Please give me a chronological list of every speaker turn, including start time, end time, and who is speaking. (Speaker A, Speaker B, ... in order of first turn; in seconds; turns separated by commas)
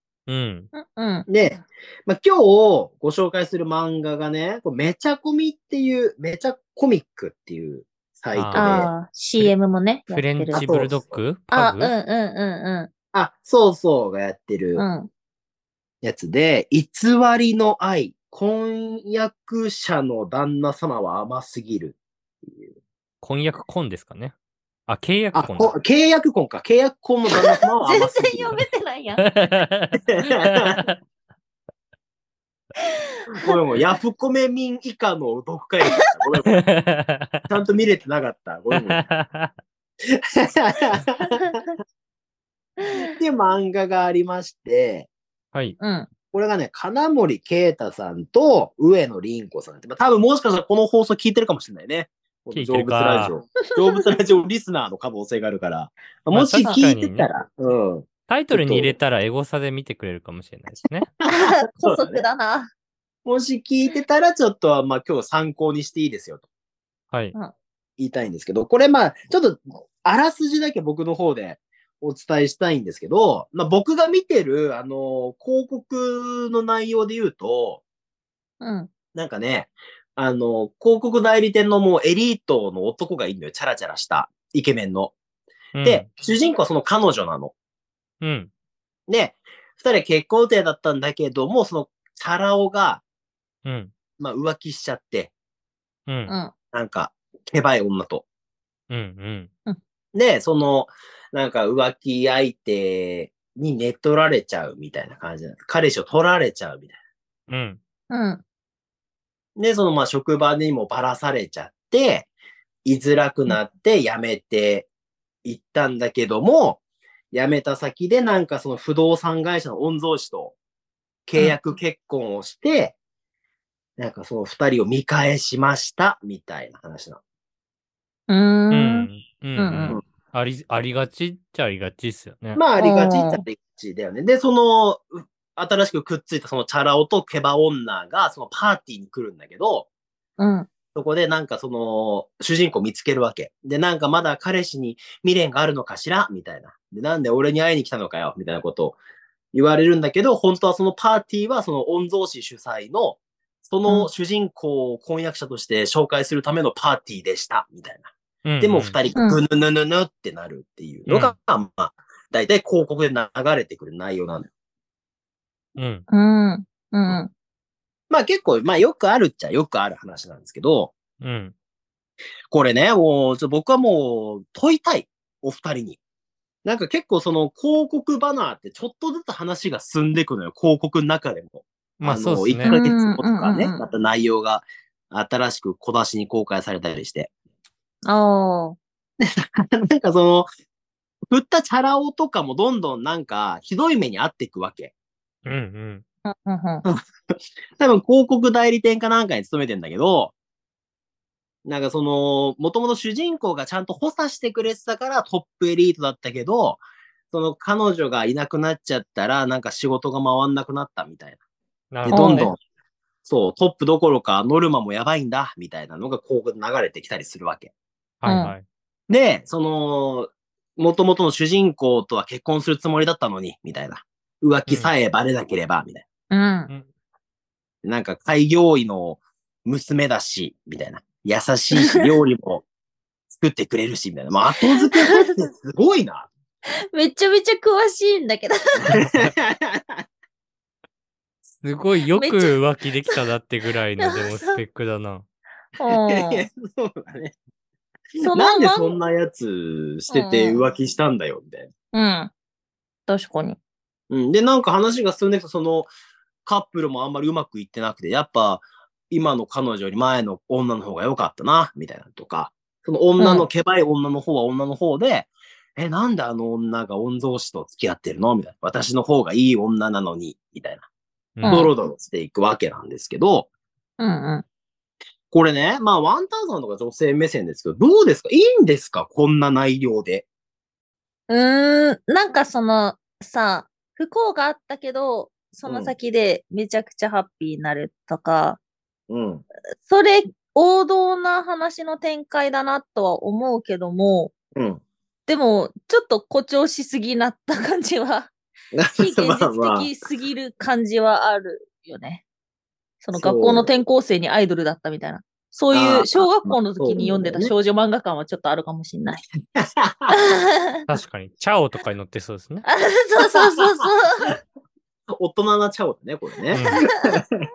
Speaker A: 0.3-0.7, Speaker B: 0.7-1.3, Speaker C: 1.3-8.9, Speaker A: 8.3-8.8, Speaker B: 8.6-10.7, Speaker A: 10.1-11.9, Speaker C: 10.6-11.2, Speaker B: 11.5-12.9, Speaker C: 13.1-14.8, Speaker B: 14.8-15.1, Speaker C: 16.0-22.8, Speaker A: 23.2-24.3, Speaker A: 24.9-25.7, Speaker C: 25.3-28.6, Speaker B: 27.8-29.3, Speaker A: 29.2-30.9, Speaker C: 30.1-30.9, Speaker C: 33.4-36.6, Speaker A: 36.6-37.3, Speaker C: 37.5-39.0, Speaker A: 38.8-39.5, Speaker C: 40.4-41.5, Speaker B: 42.8-43.1, Speaker C: 42.9-45.1, Speaker B: 45.8-46.1, Speaker C: 46.3-59.0, Speaker A: 52.5-53.3, Speaker A: 56.3-57.3, Speaker A: 58.3-61.1, Speaker C: 61.3-62.2, Speaker B: 61.3-62.7, Speaker C: 63.2-66.4, Speaker C: 68.0-77.8, Speaker B: 78.6-78.9, Speaker C: 79.2-85.2, Speaker A: 85.8-86.1, Speaker C: 85.8-87.5, Speaker A: 88.2-88.5, Speaker C: 89.1-93.0, Speaker A: 93.7-93.9, Speaker C: 94.2-95.3, Speaker A: 96.1-96.3, Speaker B: 96.3-96.5, Speaker C: 96.7-98.2, Speaker A: 98.9-99.5, Speaker C: 100.1-107.0, Speaker A: 107.5-107.8, Speaker B: 108.1-108.4, Speaker C: 109.6-112.3, Speaker C: 112.8-114.9, Speaker C: 115.4-116.8, Speaker C: 117.3-120.6, Speaker C: 121.3-123.0, Speaker C: 124.0-127.2, Speaker B: 128.3-130.0, Speaker A: 128.7-132.6, Speaker C: 132.6-139.9, Speaker B: 132.8-133.4, Speaker B: 140.4-140.7, Speaker C: 140.9-149.0, Speaker C: 149.5-164.5, Speaker A: 158.4-159.0, Speaker B: 159.2-159.4, Speaker A: 161.1-161.3, Speaker A: 165.8-166.1, Speaker B: 166.1-167.3, Speaker C: 168.1-170.9, Speaker A: 171.2-171.5, Speaker C: 172.5-176.0, Speaker C: 176.7-187.3, Speaker A: 182.0-182.7, Speaker B: 182.7-183.8, Speaker B: 188.1-188.8, Speaker C: 189.2-190.5, Speaker C: 191.3-194.9, Speaker A: 195.4-196.0, Speaker B: 196.3-196.8, Speaker C: 197.8-200.3, Speaker C: 201.7-211.4, Speaker A: 211.9-212.5, Speaker C: 212.1-212.6, Speaker B: 212.1-212.5, Speaker C: 213.2-217.7, Speaker A: 218.2-218.6, Speaker B: 218.3-218.5, Speaker C: 219.1-226.1, Speaker B: 226.3-226.7, Speaker C: 227.8-232.7, Speaker C: 233.3-236.3, Speaker B: 236.9-238.6, Speaker C: 238.9-240.0, Speaker A: 241.5-245.2, Speaker B: 242.1-243.2, Speaker B: 244.0-244.6, Speaker B: 245.8-246.5, Speaker C: 245.9-247.4, Speaker B: 248.2-248.9, Speaker C: 248.3-251.7, Speaker B: 250.1-250.6, Speaker B: 251.9-252.3, Speaker B: 253.1-253.6, Speaker C: 254.1-255.9, Speaker C: 256.4-270.9, Speaker B: 263.2-263.5, Speaker A: 271.4-271.7, Speaker B: 271.4-271.7, Speaker C: 271.5-273.5, Speaker B: 274.0-274.4, Speaker C: 275.3-280.3, Speaker B: 281.3-288.6, Speaker C: 285.7-285.9, Speaker C: 289.1-289.4, Speaker B: 289.8-294.3, Speaker C: 294.6-294.8, Speaker B: 295.3-298.3, Speaker C: 298.7-299.9, Speaker B: 299.0-302.2, Speaker B: 303.0-309.2, Speaker C: 303.1-303.7, Speaker C: 305.7-307.5, Speaker C: 309.6-310.1, Speaker B: 310.1-310.8, Speaker A: 310.9-312.6, Speaker B: 312.6-314.3, Speaker C: 315.2-317.5, Speaker A: 316.5-316.8